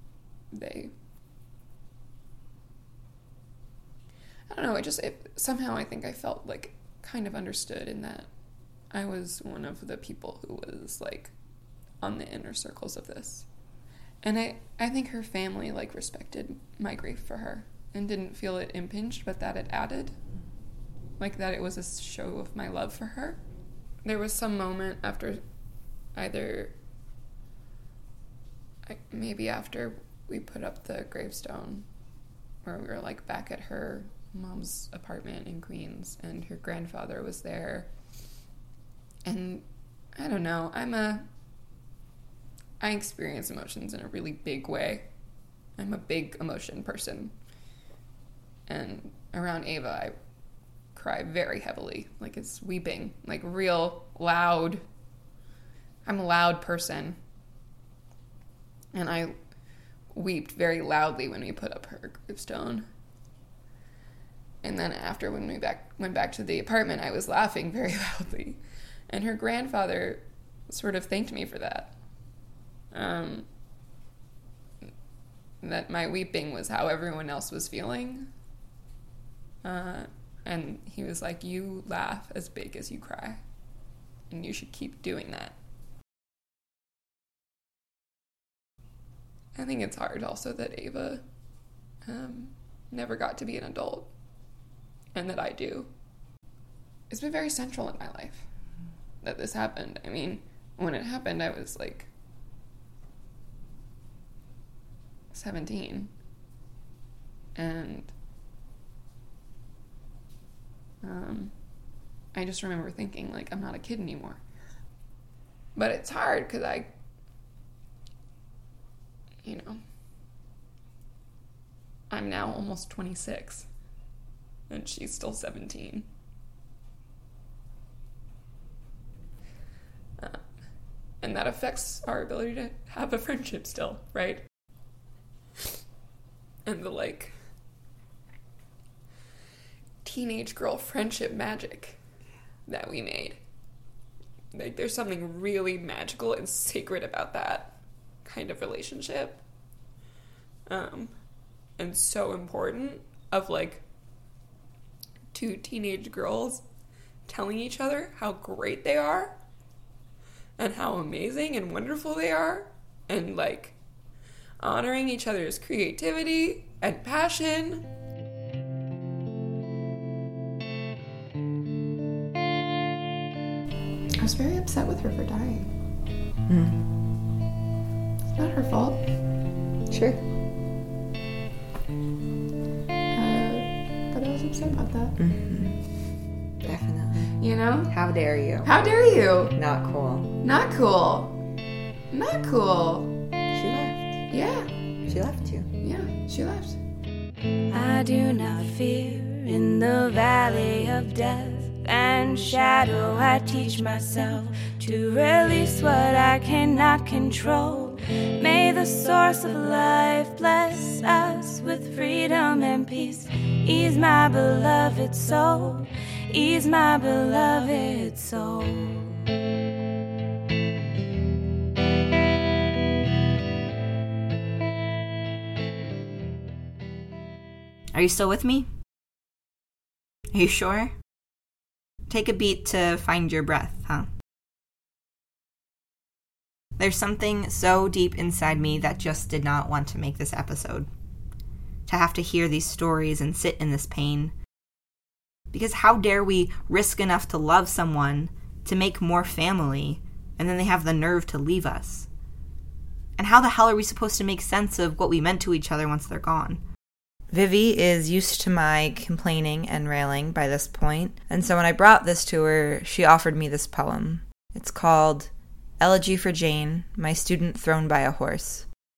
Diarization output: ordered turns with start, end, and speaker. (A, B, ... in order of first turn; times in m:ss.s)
0:00.5-0:00.9 A
0:04.5-0:08.3 A
0:08.9-0:11.3 A
0:12.0-0:13.5 A
0:14.2-0:20.2 A
0:21.2-0:23.4 A
0:24.0-0:25.4 A
0:26.1-0:26.7 A
0:28.9-0:31.9 A
0:32.6-0:37.9 A
0:39.2-0:41.3 A
0:42.8-0:45.1 A
0:45.8-0:47.3 A
0:48.7-0:50.2 A
0:50.9-0:54.8 A
0:56.0-0:57.2 A
0:58.9-0:59.4 A
1:00.1-1:02.9 A
1:04.6-1:12.0 A
1:12.9-1:13.5 A
1:15.6-1:18.3 A
1:19.6-1:23.4 A
1:24.3-1:25.6 A
1:29.5-1:31.2 A
1:32.0-1:34.1 A
1:35.1-1:35.9 A
1:37.1-1:38.4 A
1:39.2-1:42.1 A
1:45.3-1:46.1 A
1:47.6-1:48.1 A
1:51.0-1:51.5 A
1:52.3-1:54.4 A
1:55.8-1:56.9 A
1:59.4-1:59.8 A
2:02.1-2:03.7 A
2:04.7-2:06.1 A
2:10.2-2:10.4 A
2:11.2-2:14.4 A
2:16.6-2:17.4 A
2:20.0-2:22.0 A
2:22.7-2:23.4 A
2:24.5-2:29.4 A
2:30.7-2:31.1 A
2:31.8-2:33.8 A
2:35.3-2:36.6 A
2:37.3-2:39.4 A
2:40.6-2:43.8 A
2:44.6-2:47.9 A
2:54.2-2:55.7 A
2:56.5-2:56.8 B
2:58.4-2:59.0 A
2:59.9-3:00.2 B
3:03.1-3:05.1 A
3:05.2-3:05.8 B
3:06.6-3:07.3 B
3:07.4-3:07.9 A
3:07.9-3:08.7 B
3:08.6-3:09.5 A
3:09.6-3:10.3 B
3:10.4-3:11.4 A
3:12.1-3:13.1 A
3:13.5-3:14.2 B
3:14.3-3:14.7 A
3:15.1-3:15.7 B
3:15.8-3:16.8 A
3:17.7-3:39.2 C
3:47.9-3:48.7 B
3:50.3-3:50.9 B
3:52.1-3:54.1 B
3:56.8-4:00.9 B
4:01.9-4:04.3 B
4:05.5-4:12.1 B
4:13.2-4:16.6 B
4:17.3-4:28.6 B